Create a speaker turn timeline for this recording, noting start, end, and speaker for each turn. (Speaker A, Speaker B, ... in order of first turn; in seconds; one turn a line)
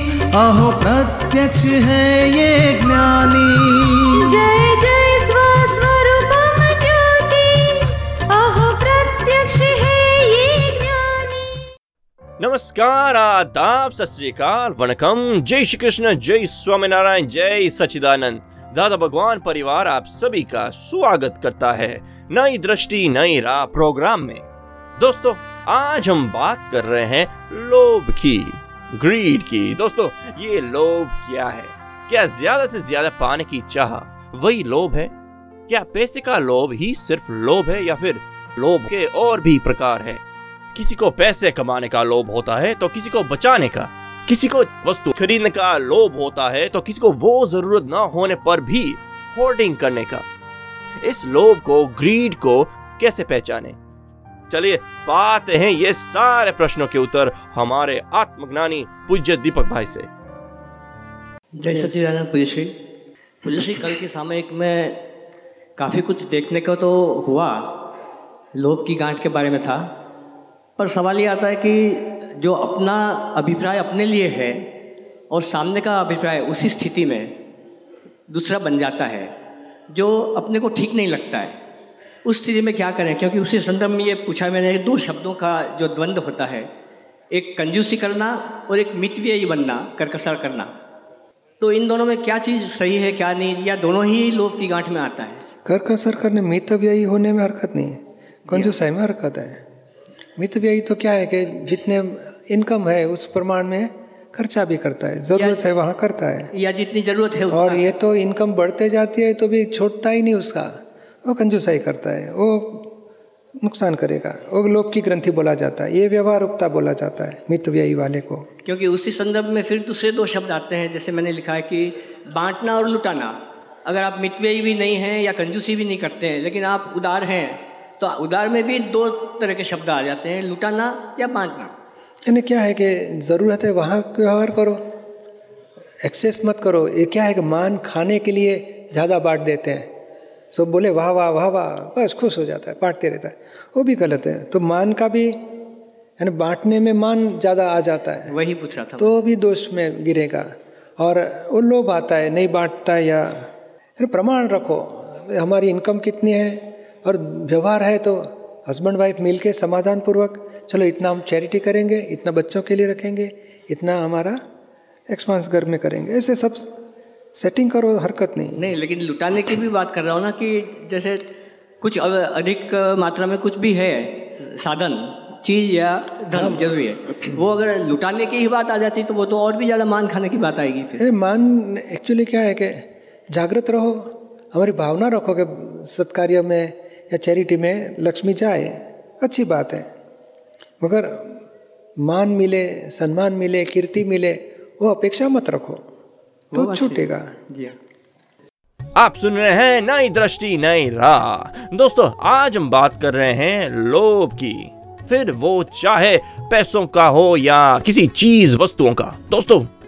Speaker A: 0.4-3.7
Speaker B: 4.1-11.6
Speaker C: 12.4-24.4
Speaker C: 25.0-35.1
Speaker C: 35.7-40.2
Speaker C: 40.7-50.2
Speaker C: 51.0-53.8
Speaker C: 54.5-60.1
Speaker D: 61.6-62.7
Speaker D: 63.4-65.0
Speaker D: 65.8-67.8
Speaker D: 68.5-69.9
Speaker D: 70.8-74.7
Speaker D: 75.3-77.3
Speaker D: 78.3-79.3
Speaker D: 79.9-81.6
Speaker D: 82.2-86.7
Speaker D: 87.3-90.7
Speaker D: 91.6-95.4
Speaker E: 95.7-99.6
Speaker D: 98.5-98.7
Speaker E: 100.4-106.5
Speaker D: 105.3-105.7
Speaker D: 106.5-107.8
Speaker E: 107.5-110.7
Speaker E: 111.2-112.9
Speaker E: 113.6-118.5
Speaker D: 118.6-131.7
Speaker E: 132.3-134.8
Speaker E: 136.0-139.9
Speaker E: 140.5-145.4
Speaker E: 146.2-148.3
Speaker D: 148.3-149.1
Speaker E: 149.0-164.4
Speaker E: 165.1-166.7
Speaker E: 167.3-168.7
Speaker D: 168.6-171.3
Speaker D: 171.8-181.0
Speaker E: 176.3-176.6
Speaker E: 181.0-189.9
Speaker E: 190.8-191.4
Speaker E: 192.0-195.8
Speaker D: 196.5-197.8
Speaker E: 196.5-197.3
Speaker C: 198.9-209.7